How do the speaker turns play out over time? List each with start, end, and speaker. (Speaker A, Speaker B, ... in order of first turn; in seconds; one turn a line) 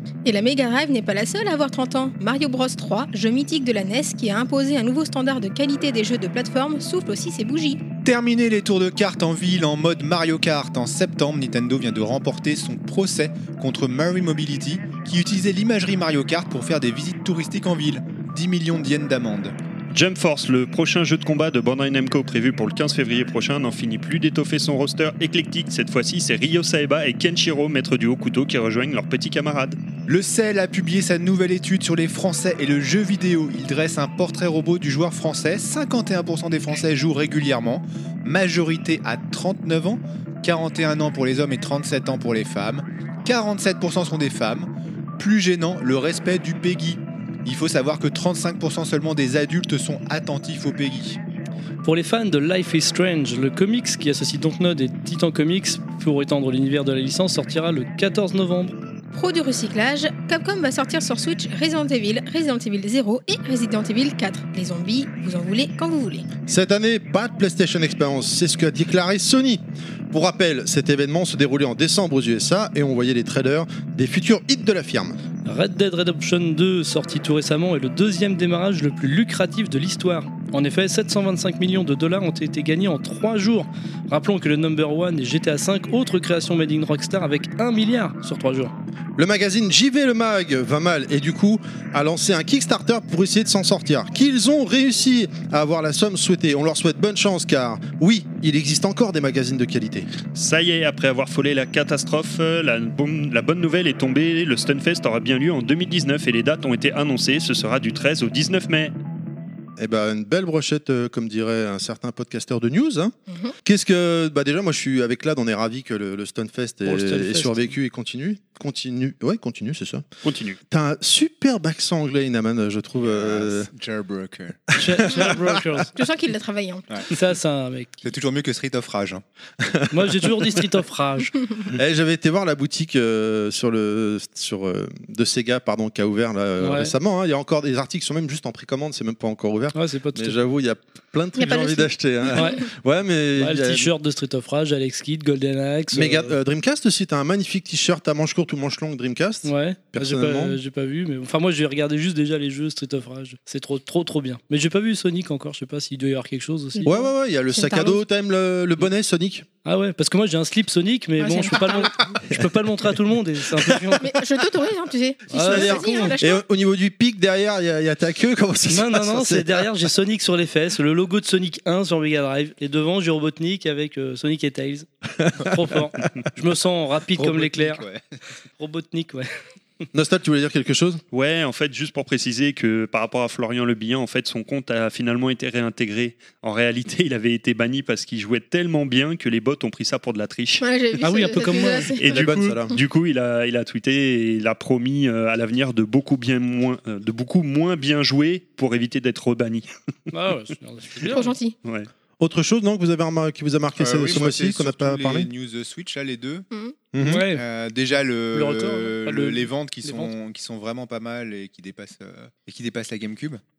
Speaker A: 0.2-7.8
Speaker B: 8.0-19.5
Speaker C: 19.9-29.8
Speaker B: 30.1-51.2
Speaker D: 51.8-58.7
Speaker A: 59.1-66.3
Speaker E: 66.5-75.2
Speaker D: 75.4-88.7
Speaker E: 89.2-100.1
Speaker C: 100.3-108.9
Speaker E: 109.8-113.1
Speaker A: 113.3-113.5
Speaker E: 113.6-120.0
Speaker D: 116.8-117.7
Speaker C: 120.2-120.6
Speaker E: 120.7-123.7
Speaker B: 123.0-124.6
Speaker D: 124.8-125.9
Speaker E: 124.8-125.8
Speaker A: 125.9-126.9
Speaker D: 127.1-127.9
Speaker B: 128.0-129.2
Speaker E: 129.6-130.6
Speaker D: 129.9-131.3
Speaker E: 131.7-143.9
Speaker D: 136.6-136.9
Speaker D: 139.7-140.4
Speaker A: 141.3-142.5
Speaker D: 142.3-142.6
Speaker D: 143.4-146.4
Speaker E: 145.9-150.6
Speaker D: 149.4-156.9
Speaker A: 156.8-158.0
Speaker E: 156.8-159.4
Speaker D: 159.6-164.0
Speaker A: 161.2-162.0
Speaker A: 164.0-166.4
Speaker D: 165.3-166.1
Speaker E: 165.3-169.7
Speaker D: 168.7-174.9
Speaker D: 175.4-177.8
Speaker B: 177.1-178.0
Speaker D: 178.6-179.3
Speaker E: 179.9-181.0
Speaker C: 181.1-190.6
Speaker A: 190.6-192.2
Speaker D: 191.0-191.9
Speaker C: 192.0-199.7
Speaker E: 192.1-192.8
Speaker D: 200.1-201.3
Speaker A: 201.1-201.6
Speaker C: 201.6-201.9
Speaker E: 202.2-205.3
Speaker B: 203.8-206.4
Speaker A: 206.5-206.8
Speaker E: 206.9-207.2
Speaker D: 207.0-207.4
Speaker B: 207.3-213.4
Speaker D: 208.3-210.1